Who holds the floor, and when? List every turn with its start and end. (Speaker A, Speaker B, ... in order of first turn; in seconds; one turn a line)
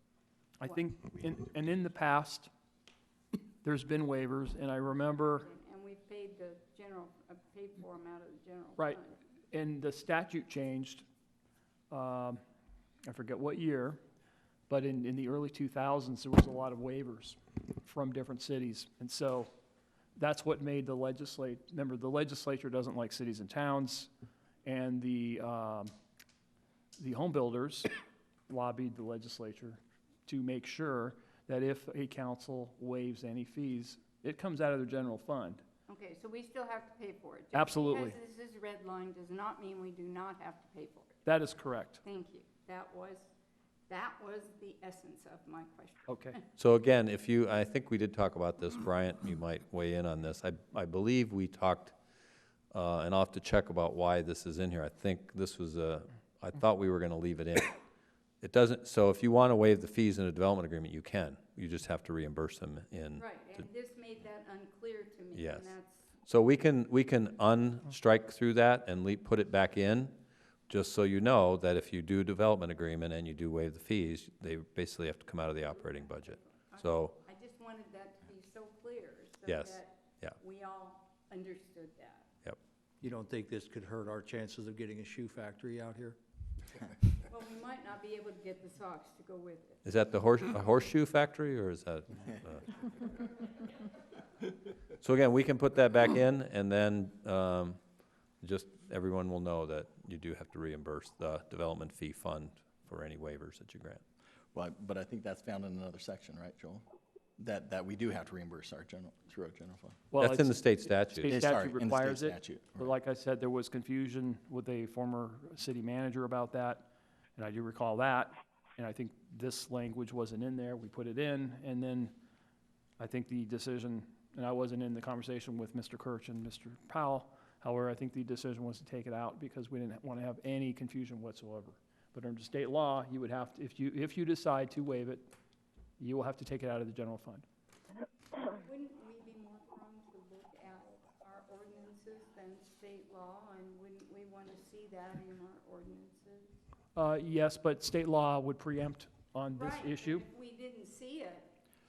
Speaker A: 0.6-2.5
Speaker A: 3.6-5.5
Speaker B: 5.2-9.2
Speaker A: 8.8-11.1
Speaker A: 11.9-12.4
Speaker A: 13.1-14.0
Speaker A: 14.7-19.5
Speaker A: 20.1-24.1
Speaker A: 24.6-25.9
Speaker A: 27.0-27.9
Speaker A: 28.5-35.6
Speaker B: 35.9-41.2
Speaker A: 37.5-38.1
Speaker A: 41.2-42.0
Speaker B: 42.0-43.3
Speaker B: 43.9-46.4
Speaker A: 46.1-46.3
Speaker C: 46.5-51.9
Speaker C: 52.7-57.8
Speaker C: 58.4-63.2
Speaker B: 63.2-66.1
Speaker C: 65.3-65.7
Speaker C: 66.2-70.1
Speaker C: 70.7-77.1
Speaker B: 76.1-82.3
Speaker C: 79.5-80.3
Speaker D: 83.0-86.2
Speaker B: 87.2-89.8
Speaker C: 89.8-92.8
Speaker C: 95.0-97.8
Speaker C: 98.4-104.0
Speaker E: 104.5-106.8
Speaker E: 107.4-110.1
Speaker A: 110.1-122.1
Speaker C: 110.2-111.3
Speaker E: 111.3-112.9
Speaker A: 123.0-135.3
Speaker A: 136.0-137.4
Speaker B: 138.5-146.5
Speaker A: 146.9-150.2
Speaker B: 149.5-151.5